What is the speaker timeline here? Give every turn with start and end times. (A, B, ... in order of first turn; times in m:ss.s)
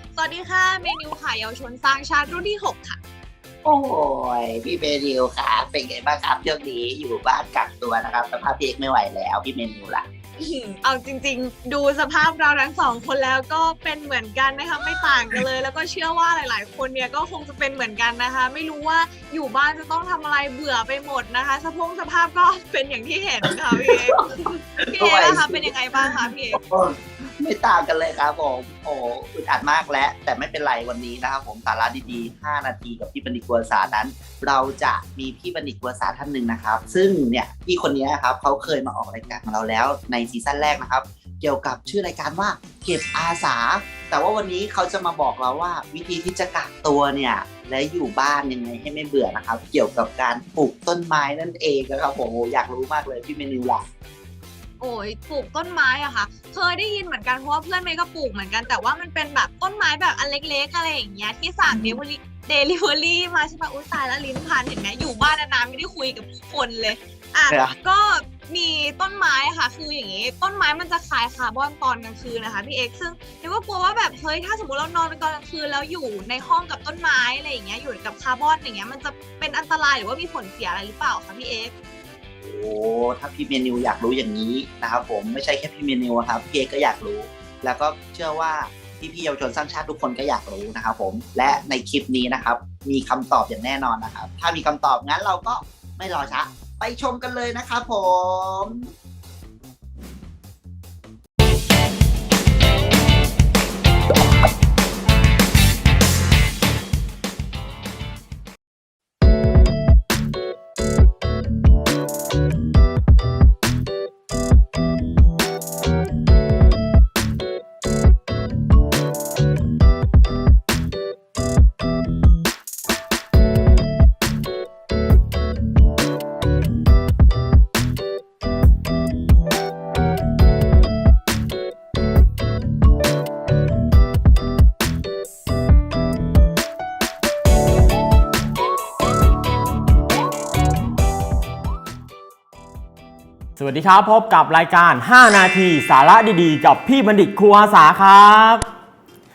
0:00.2-0:03.0 A
0:03.6-0:10.1 B
0:10.4-0:26.6 A
0:23.8-0:24.1 B
0:24.8-0:53.8 B
0:54.8-1:21.7 A
1:01.7-1:02.0 B
1:22.4-1:38.9 B
2:23.6-2:28.6 C